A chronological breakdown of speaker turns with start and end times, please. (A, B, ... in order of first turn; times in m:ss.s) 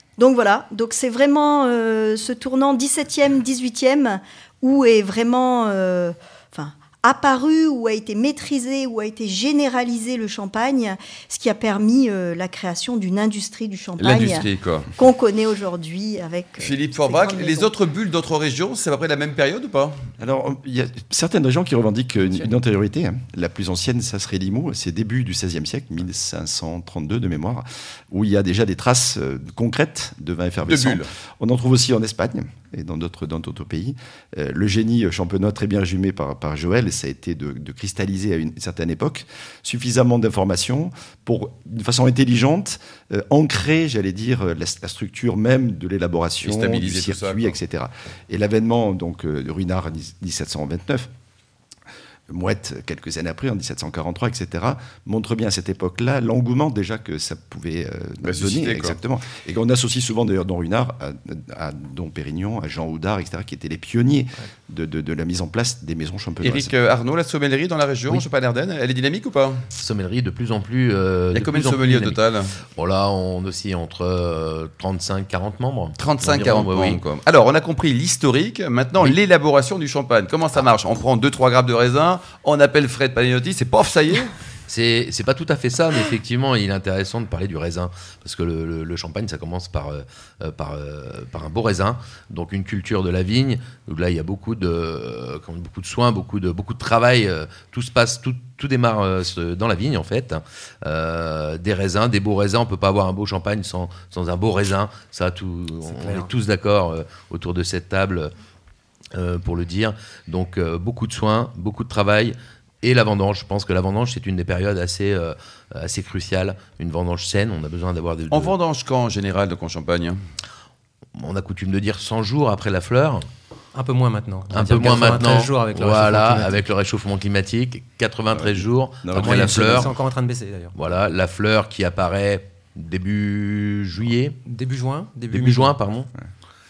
0:00.2-0:14.4 A
0:14.0-0:14.9 B
0:15.0-0:17.7 A
0:16.6-0:20.0 B
0:20.2-0:51.1 C
0:30.6-0:31.1 B
0:46.4-0:47.6 B
0:52.3-1:06.7 C
0:58.2-0:59.0 B
1:06.4-1:09.6 B
1:09.7-1:12.2 D
1:11.3-1:12.6 B
1:12.7-1:17.0 D
1:16.0-1:24.3 B
1:24.7-1:48.3 D
1:49.1-1:58.6 D
1:58.3-2:00.2 B
2:01.1-2:03.2 D
2:03.7-2:06.6 E
2:04.5-2:09.9 D
2:08.3-2:09.9 C
2:09.2-2:10.7 E
2:10.7-2:14.4 D
2:14.4-2:15.8 E
2:15.3-2:16.1 D